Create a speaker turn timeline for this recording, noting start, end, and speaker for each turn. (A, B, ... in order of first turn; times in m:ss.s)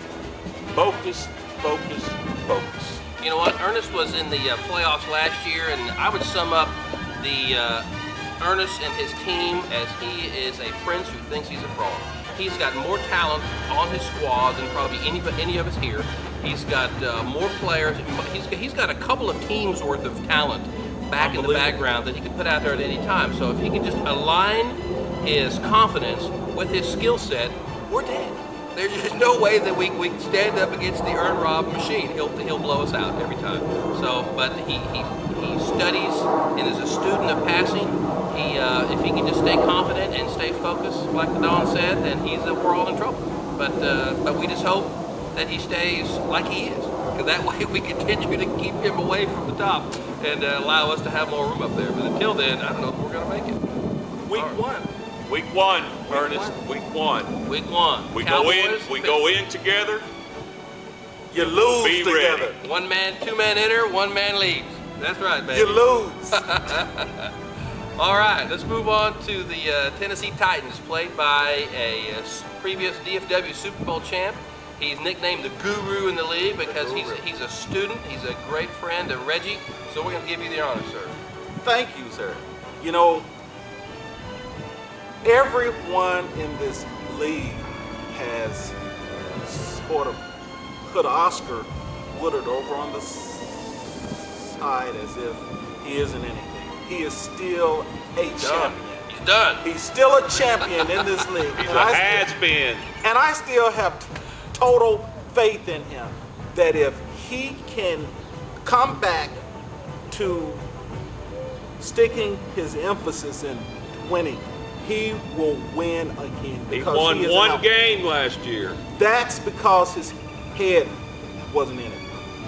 0:00.7-0:03.0 A
0:03.2-0:07.9 B
0:08.4-0:53.6 B
0:21.2-0:21.6 C
0:21.4-0:21.7 A
0:54.2-0:54.9 C
0:54.3-0:54.6 B
0:55.2-0:57.3 A
0:56.1-0:56.6 C
0:57.4-0:59.3 B
0:58.1-1:00.0 A
1:01.3-1:02.6 C
1:01.7-1:02.5 A
1:02.6-1:07.3 B
1:05.5-1:06.5 C
1:08.0-1:21.2 B
1:16.6-1:17.2 C
1:21.6-1:23.3 C
1:25.2-1:28.8 C
1:29.3-1:30.2 C
1:30.8-1:33.6 C
1:34.2-1:39.1 C
1:38.3-1:39.6 B
1:39.6-1:42.3 C
1:40.5-1:41.0 B
1:41.6-1:42.9 A
1:43.0-1:48.1 C
1:48.6-1:49.4 C
1:50.1-1:50.6 C
1:51.8-1:57.7 C
1:56.7-1:58.8 A
1:59.0-2:00.9 C
2:01.5-2:02.1 C